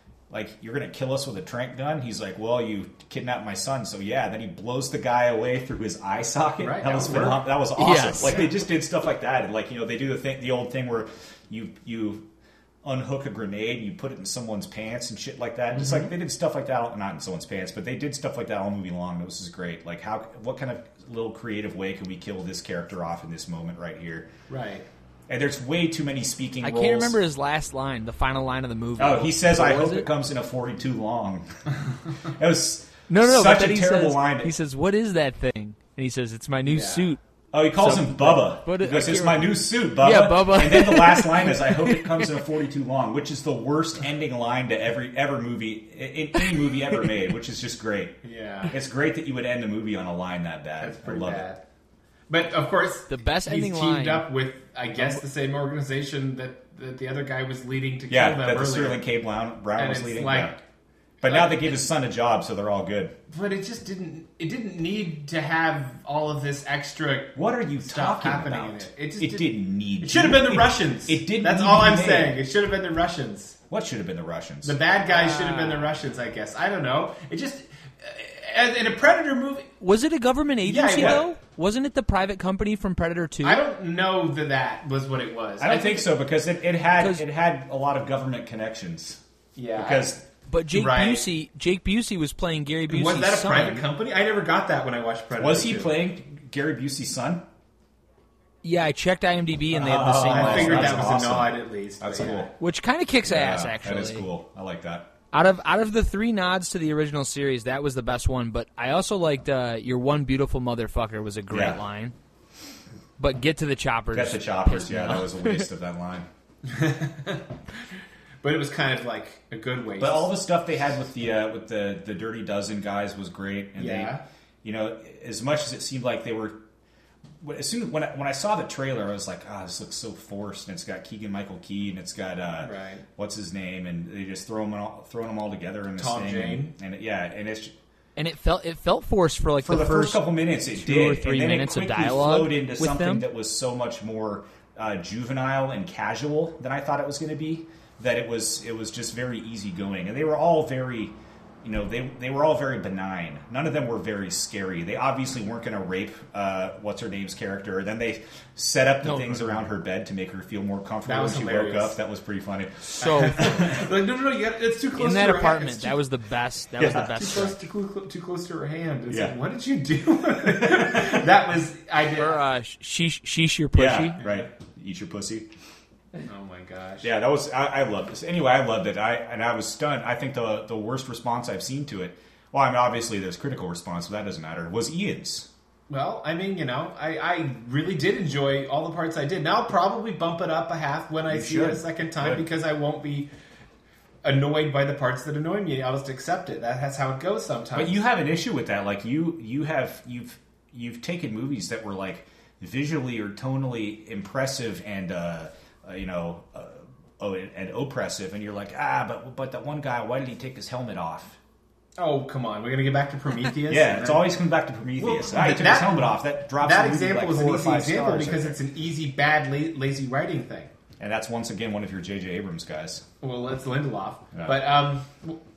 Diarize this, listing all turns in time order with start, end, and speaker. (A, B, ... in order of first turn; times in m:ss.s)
0:00.3-0:12.3 A
0:06.6-0:07.5 B
0:07.8-0:08.5 C
0:12.8-0:24.3 A
0:15.7-0:16.1 B
0:24.5-0:24.9 B
0:25.3-0:27.2 A
0:26.6-0:30.1 C
0:29.0-0:34.5 A
0:33.1-0:37.2 C
0:36.7-0:37.1 B
0:37.5-0:51.5 A
0:37.8-0:42.4 C
0:48.2-0:48.8 B
0:50.8-0:51.6 B
0:52.3-0:59.0 B
0:53.1-0:54.3 C
0:58.1-1:00.6 A
0:59.8-1:00.6 B
1:01.2-1:03.2 A
1:01.3-1:01.6 B
1:03.3-1:13.6 B
1:07.4-1:12.4 A
1:13.7-1:14.8 A
1:14.6-1:19.7 B
1:15.1-1:15.9 C
1:19.8-1:23.6 C
1:20.6-1:21.3 B
1:21.0-1:21.3 A
1:23.4-1:26.1 B
1:25.6-1:29.2 A
1:27.0-1:27.2 C
1:29.6-1:30.2 B
1:29.8-1:30.2 A
1:30.5-1:33.9 C
1:30.7-1:31.3 B
1:32.9-1:36.0 B
1:35.4-1:37.4 A
1:38.6-1:41.0 C
1:39.7-1:42.5 A
1:40.1-1:42.5 B
1:42.6-1:44.3 C
1:43.3-1:45.1 A
1:45.3-1:52.2 C
1:51.5-1:51.8 A
1:53.2-1:55.7 C
1:54.1-1:56.3 A
1:56.6-1:57.5 B
1:58.4-2:00.4 B
2:00.0-2:06.6 A
2:03.8-2:04.2 B
2:07.4-2:17.7 A
2:12.6-2:13.0 B
2:16.0-2:16.8 B
2:18.2-2:23.3 C
2:19.6-2:43.9 A
2:39.0-2:39.7 C
2:41.0-2:42.0 B
2:43.0-2:43.4 C
2:43.0-2:46.0 B
2:45.0-2:47.6 C
2:46.8-2:47.2 A
2:47.2-2:52.4 B
2:49.1-2:49.4 A
2:50.6-2:51.2 A
2:52.2-2:54.2 C
2:53.7-2:55.5 A
2:54.2-2:54.5 B
2:56.2-2:57.1 B
2:57.0-3:05.5 A
3:05.9-3:13.3 B
3:11.3-3:12.5 A
3:14.2-3:18.0 B
3:17.7-3:31.4 A
3:32.0-3:34.3 B
3:33.7-3:38.6 A
3:35.0-3:40.7 B
3:41.0-3:43.1 A
3:43.2-3:45.4 B